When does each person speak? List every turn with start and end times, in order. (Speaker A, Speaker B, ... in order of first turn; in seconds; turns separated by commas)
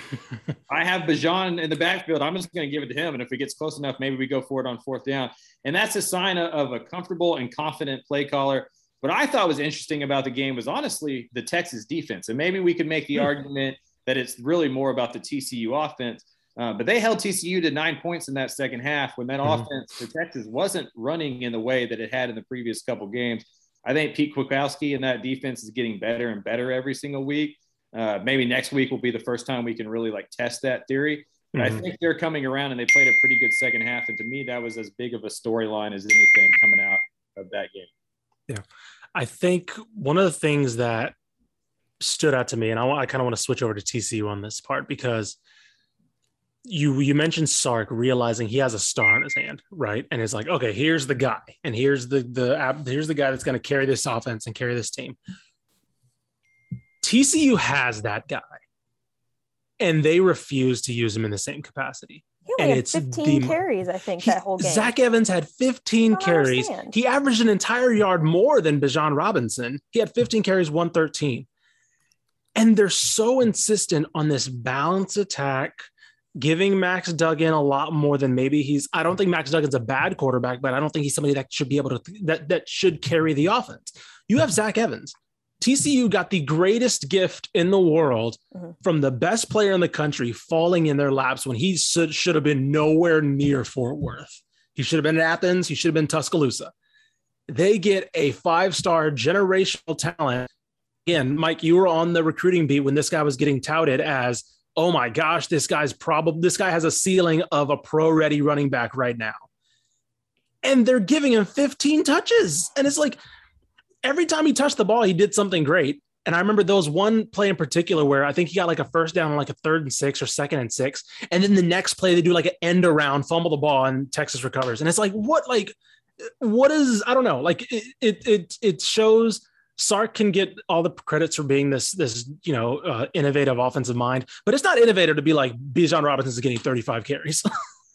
Speaker A: 0.7-37.9, Speaker B: 31.5-31.8, Speaker B: 39.1-41.1, Speaker B: 42.0-45.4, Speaker B: 46.6-55.2, Speaker B: 57.0-58.6, Speaker B: 59.8-63.6, Speaker C: 62.5-64.9, Speaker B: 64.2-71.5, Speaker C: 66.0-66.9, Speaker B: 72.5-75.9, Speaker B: 76.4-96.7, Speaker B: 97.5-100.5, Speaker B: 101.0-109.4, Speaker B: 110.6-113.2, Speaker B: 114.0-125.8, Speaker B: 126.4-137.5